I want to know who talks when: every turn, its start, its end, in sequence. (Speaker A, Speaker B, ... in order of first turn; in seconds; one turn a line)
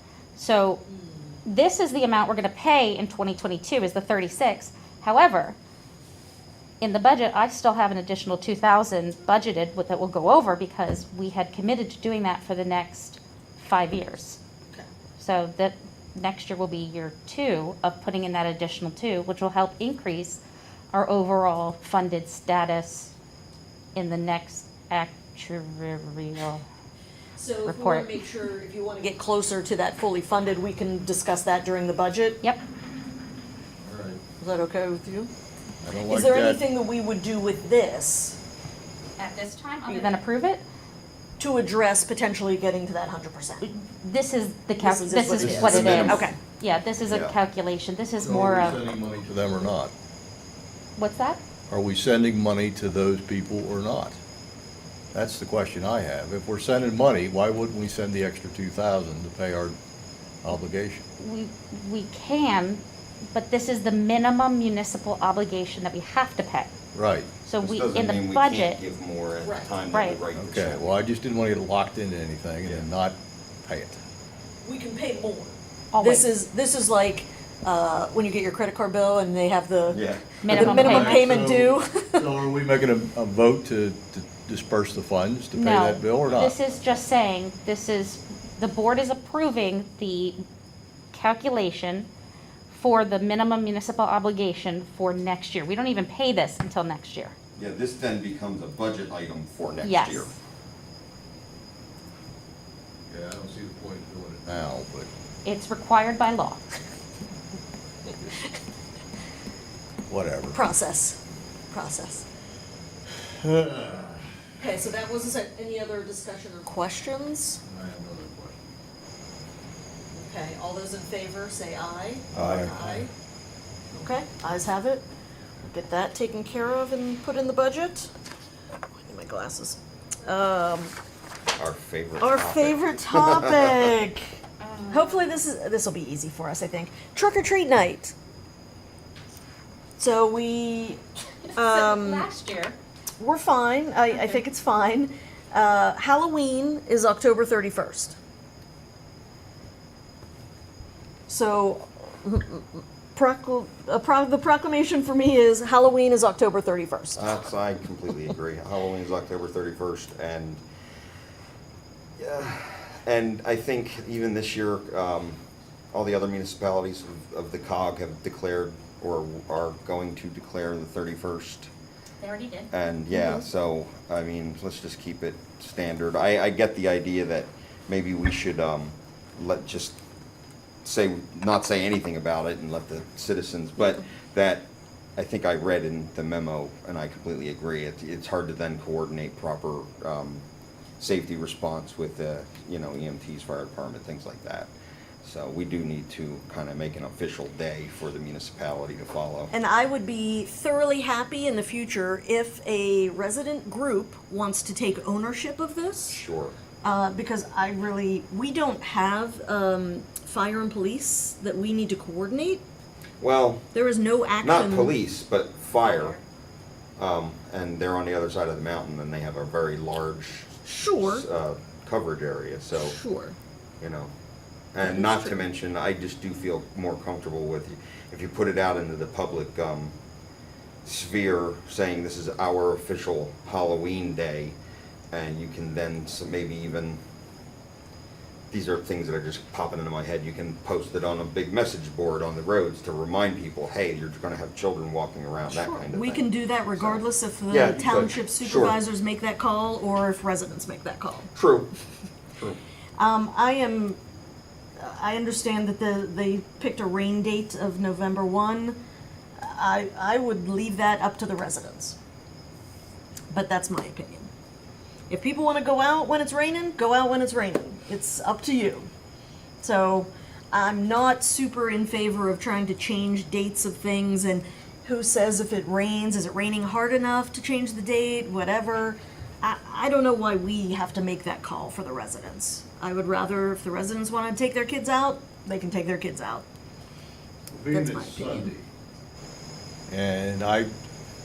Speaker A: 0.3-0.8
Speaker B: 0.9-1.2
Speaker A: 1.4-5.6
Speaker A: 6.8-14.4
Speaker A: 15.2-20.4
Speaker A: 20.9-23.1
Speaker A: 23.9-26.6
Speaker B: 27.4-32.4
Speaker A: 27.6-28.1
Speaker C: 33.8-34.2
Speaker B: 34.4-35.3
Speaker C: 35.8-36.6
Speaker B: 36.1-38.4
Speaker A: 39.2-40.6
Speaker B: 41.4-43.6
Speaker A: 43.6-48.8
Speaker B: 44.8-46.4
Speaker C: 45.4-46.1
Speaker D: 45.6-46.3
Speaker D: 47.0-47.4
Speaker C: 48.2-49.9
Speaker A: 51.0-51.4
Speaker C: 51.7-54.2
Speaker C: 55.1-59.8
Speaker C: 60.4-61.0
Speaker A: 61.2-66.7
Speaker C: 66.9-67.3
Speaker A: 67.4-68.8
Speaker D: 67.6-70.9
Speaker B: 69.4-69.7
Speaker A: 69.9-70.2
Speaker C: 70.3-74.0
Speaker B: 74.6-82.3
Speaker A: 75.9-76.3
Speaker D: 79.9-80.4
Speaker A: 80.4-81.3
Speaker C: 80.5-86.6
Speaker A: 85.5-90.4
Speaker A: 91.1-92.1
Speaker A: 92.7-97.3
Speaker D: 97.5-100.3
Speaker A: 99.8-100.4
Speaker C: 103.1-105.1
Speaker A: 105.4-106.8
Speaker C: 110.1-110.6
Speaker B: 110.5-111.2
Speaker B: 111.7-112.2
Speaker C: 113.2-114.3
Speaker B: 114.6-117.6
Speaker C: 117.7-118.6
Speaker B: 120.1-123.1
Speaker C: 122.3-123.0
Speaker D: 122.3-122.7
Speaker B: 123.9-125.0
Speaker B: 125.7-128.1
Speaker B: 128.9-130.9
Speaker D: 131.6-134.0
Speaker B: 132.2-134.3
Speaker A: 134.6-135.3
Speaker B: 134.9-138.1
Speaker B: 140.0-141.0
Speaker A: 141.5-142.8
Speaker B: 141.5-142.3
Speaker B: 143.2-148.2
Speaker A: 144.1-144.4
Speaker B: 151.3-157.3
Speaker D: 157.2-160.6
Speaker D: 162.2-165.4
Speaker D: 165.9-171.7
Speaker A: 172.2-172.7
Speaker D: 172.7-180.0
Speaker B: 173.1-173.4
Speaker D: 180.8-190.4
Speaker D: 191.0-199.5
Speaker B: 199.5-206.2
Speaker D: 206.1-206.6
Speaker B: 206.8-212.6
Speaker D: 213.2-213.7
Speaker B: 213.7-215.0
Speaker D: 214.4-216.2
Speaker A: 215.9-216.2
Speaker D: 217.0-223.0
Speaker B: 220.7-221.2
Speaker B: 222.7-223.3
Speaker D: 223.8-224.1
Speaker D: 224.7-229.9
Speaker B: 224.8-225.4
Speaker D: 230.8-234.6
Speaker D: 235.1-237.0
Speaker D: 238.5-248.8
Speaker B: 245.5-251.3
Speaker D: 251.3-251.7
Speaker B: 253.0-254.0
Speaker B: 254.8-258.8
Speaker B: 259.4-261.9
Speaker B: 263.3-264.3
Speaker B: 265.1-268.9
Speaker B: 269.6-286.4
Speaker C: 287.5-288.7
Speaker B: 287.7-288.5
Speaker C: 289.9-290.7